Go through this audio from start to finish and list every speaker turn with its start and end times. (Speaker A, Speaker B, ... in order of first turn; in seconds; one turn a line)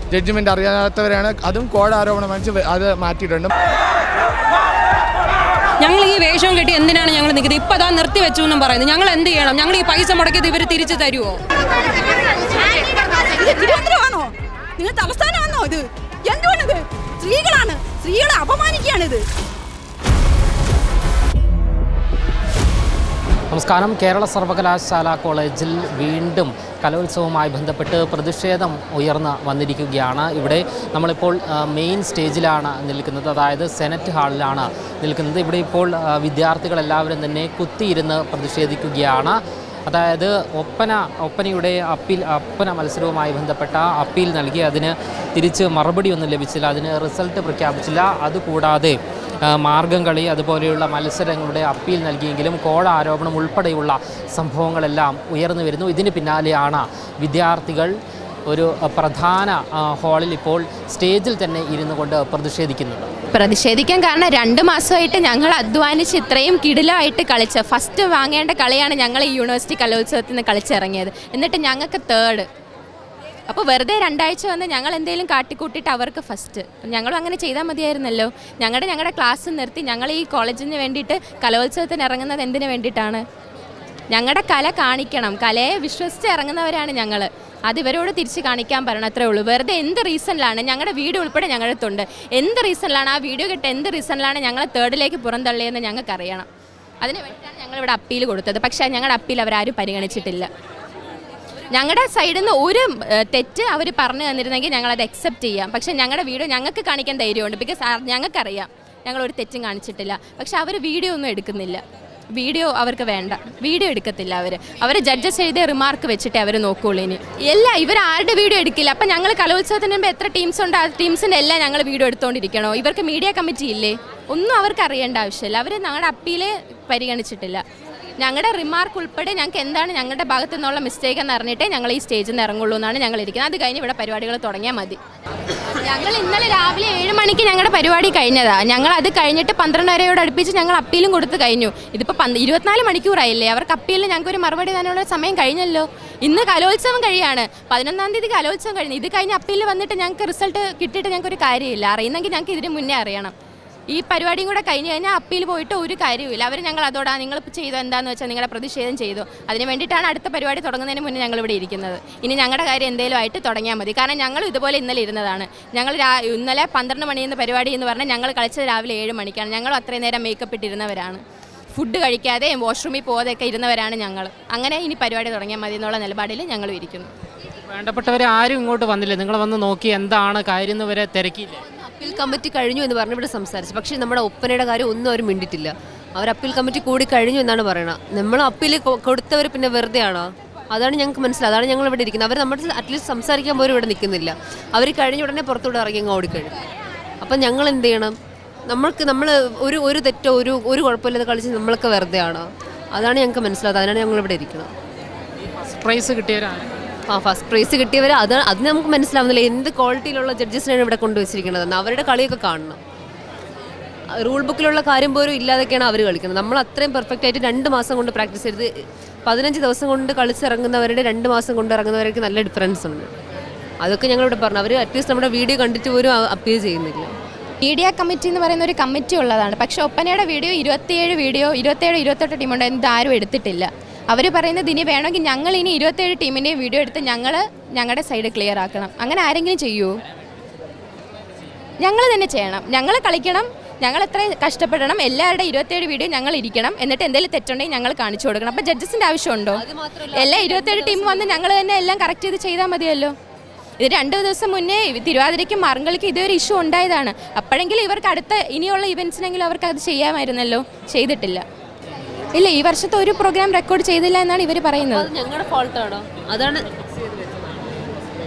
Speaker A: 0.1-3.5
Speaker B: 5.8-11.4
Speaker C: 13.2-19.2
Speaker D: 23.5-57.9
Speaker D: 58.5-63.1
Speaker E: 63.3-72.5
Speaker E: 73.5-83.2
Speaker E: 84.1-96.5
Speaker E: 97.0-100.5
Speaker E: 101.7-111.8
Speaker E: 112.3-127.6
Speaker E: 128.2-135.0
Speaker E: 135.8-153.3
Speaker E: 153.9-171.2
Speaker E: 171.7-177.1
Speaker D: 177.7-181.6
Speaker F: 181.8-196.6
Speaker F: 197.2-198.1
Speaker F: 198.7-204.7
Speaker D: 205.5-206.7
Speaker F: 207.1-212.8
Speaker F: 214.2-218.7
Speaker F: 219.2-223.1
Speaker F: 223.8-227.1
Speaker E: 227.6-239.9
Speaker E: 241.8-249.6
Speaker F: 249.5-251.5
Speaker E: 250.4-253.1
Speaker E: 253.8-261.4
Speaker E: 262.4-265.1
Speaker F: 264.9-267.5